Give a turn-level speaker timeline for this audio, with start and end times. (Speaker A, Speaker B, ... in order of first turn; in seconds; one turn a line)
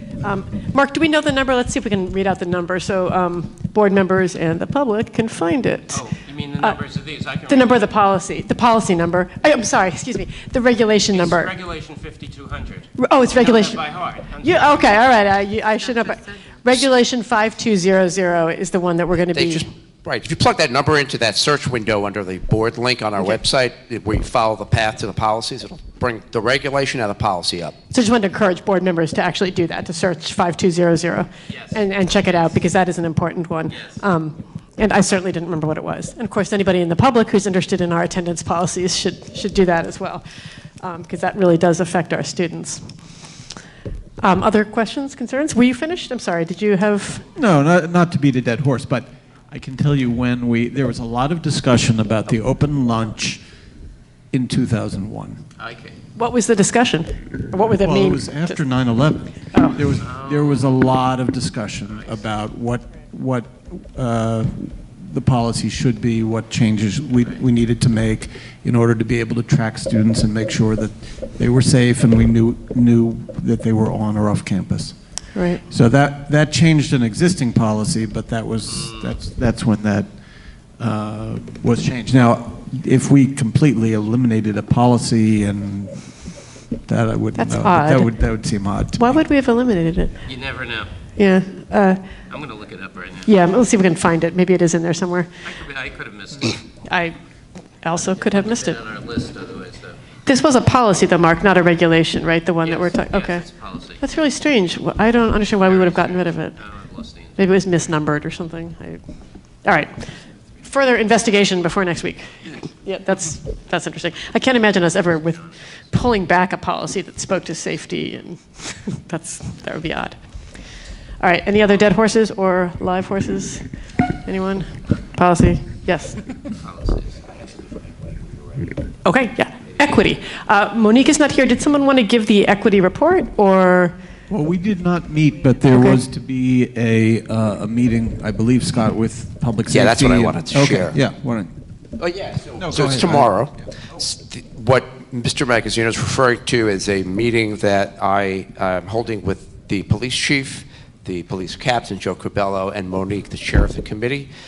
Speaker A: 0.2-5.9
Speaker B: 5.9-8.0
Speaker A: 7.5-11.5
Speaker B: 11.1-15.1
Speaker A: 13.0-13.8
Speaker A: 14.4-19.6
Speaker C: 19.3-27.8
Speaker A: 27.9-40.2
Speaker B: 31.5-32.5
Speaker B: 33.7-34.0
Speaker A: 40.8-42.8
Speaker A: 44.2-47.2
Speaker D: 47.3-53.4
Speaker D: 54.3-55.4
Speaker B: 55.6-55.9
Speaker A: 56.2-58.3
Speaker D: 57.7-75.0
Speaker B: 60.0-60.7
Speaker B: 61.9-62.2
Speaker A: 75.3-75.6
Speaker D: 75.7-80.1
Speaker B: 78.6-79.2
Speaker D: 80.8-86.0
Speaker D: 86.9-89.2
Speaker A: 87.4-88.0
Speaker A: 89.0-90.2
Speaker B: 90.2-90.9
Speaker A: 91.2-92.0
Speaker B: 92.3-93.4
Speaker A: 93.2-95.3
Speaker B: 95.4-96.6
Speaker A: 96.8-97.2
Speaker A: 97.8-98.8
Speaker B: 98.0-100.0
Speaker A: 100.2-103.5
Speaker B: 102.6-104.0
Speaker A: 104.0-106.5
Speaker B: 105.6-107.4
Speaker A: 107.4-109.0
Speaker A: 109.7-110.0
Speaker A: 110.7-120.2
Speaker B: 115.2-115.5
Speaker A: 121.2-123.6
Speaker A: 124.2-126.2
Speaker B: 126.5-127.4
Speaker A: 129.0-133.9
Speaker D: 134.3-141.5
Speaker C: 139.7-141.0
Speaker C: 142.0-154.3
Speaker D: 142.6-143.5